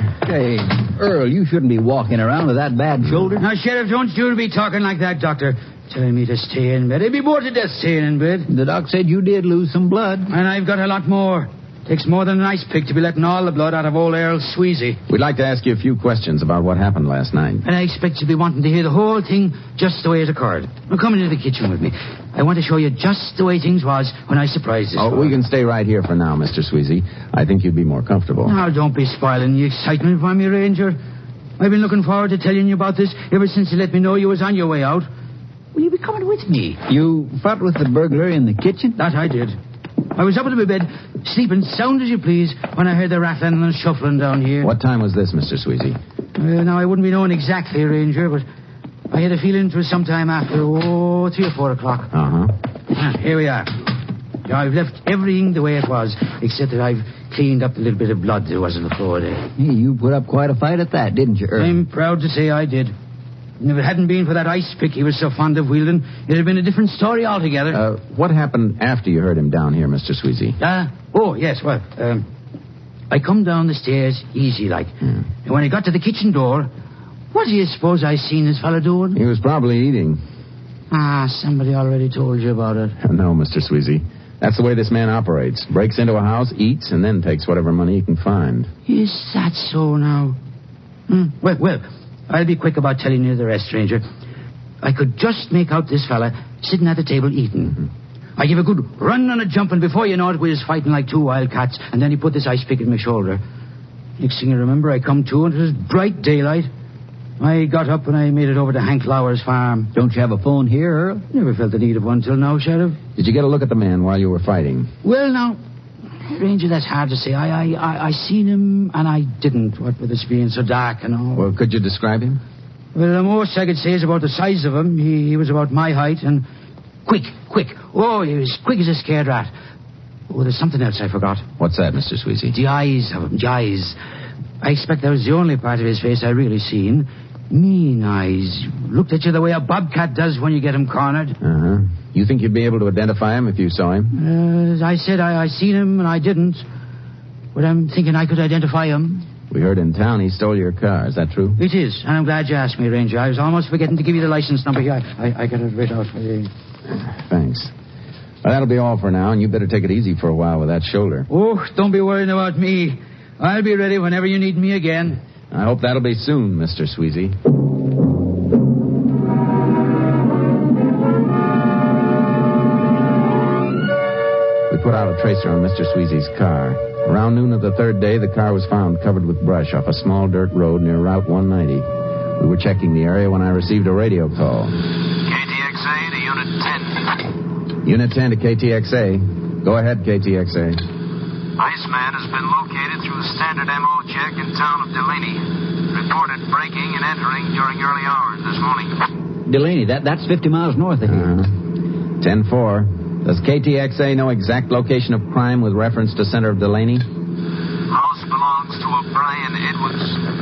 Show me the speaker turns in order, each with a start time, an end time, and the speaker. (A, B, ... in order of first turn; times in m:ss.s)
0:00.2-0:03.4 A
0:03.4-0:08.5 B
0:08.5-0:10.3 A
0:10.3-0:15.0 B
0:15.1-0:17.6 C
0:17.6-0:25.3 B
0:25.0-0:28.5 C
0:28.4-0:31.0 B
0:31.6-0:35.1 B
0:35.7-0:36.8 B
0:36.9-0:39.0 A
0:39.0-0:39.6 B
0:40.1-0:44.7 B
0:44.6-0:46.0 C
0:46.4-0:48.4 B
0:49.1-0:52.1 B
0:52.1-0:52.5 C
0:52.9-0:53.7 B
0:54.4-0:59.4 B
0:59.6-1:01.8 A
1:01.6-1:02.9 B
1:03.6-1:07.8 B
1:07.7-1:10.6 C
1:10.6-1:12.2 B
1:13.1-1:14.9 B
1:15.4-1:16.7 B
1:17.3-1:19.2 B
1:19.1-1:20.2 C
1:20.9-1:22.9 B
1:23.0-1:28.7 C
1:28.9-1:30.4 B
1:31.1-1:34.0 B
1:34.8-1:37.8 B
1:38.4-1:43.4 B
1:44.2-1:46.7 B
1:47.4-1:49.9 B
1:49.9-1:51.2 A
1:51.3-1:53.0 B
1:53.2-1:54.9 C
1:55.0-1:55.6 B
1:56.2-2:01.5 B
2:01.3-2:02.4 C
2:02.9-2:06.4 B
2:07.0-2:09.5 B
2:10.3-2:11.4 B
2:11.6-2:12.5 C
2:12.5-2:14.0 B
2:14.6-2:21.4 B
2:21.4-2:24.1 C
2:24.1-2:26.6 B
2:27.5-2:29.3 B
2:29.5-2:31.6 C
2:31.6-2:36.5 B
2:36.9-2:37.7 C
2:38.4-2:41.3 C
2:41.3-2:45.2 B
2:45.5-2:47.4 C
2:54.7-3:04.8 C
3:05.3-3:06.8 D
3:07.8-3:10.8 C
3:11.6-3:15.4 D
3:15.9-3:18.8 D
3:19.4-3:21.3 A
3:21.1-3:21.5 C
3:22.2-3:27.0 C
3:27.9-3:30.0 D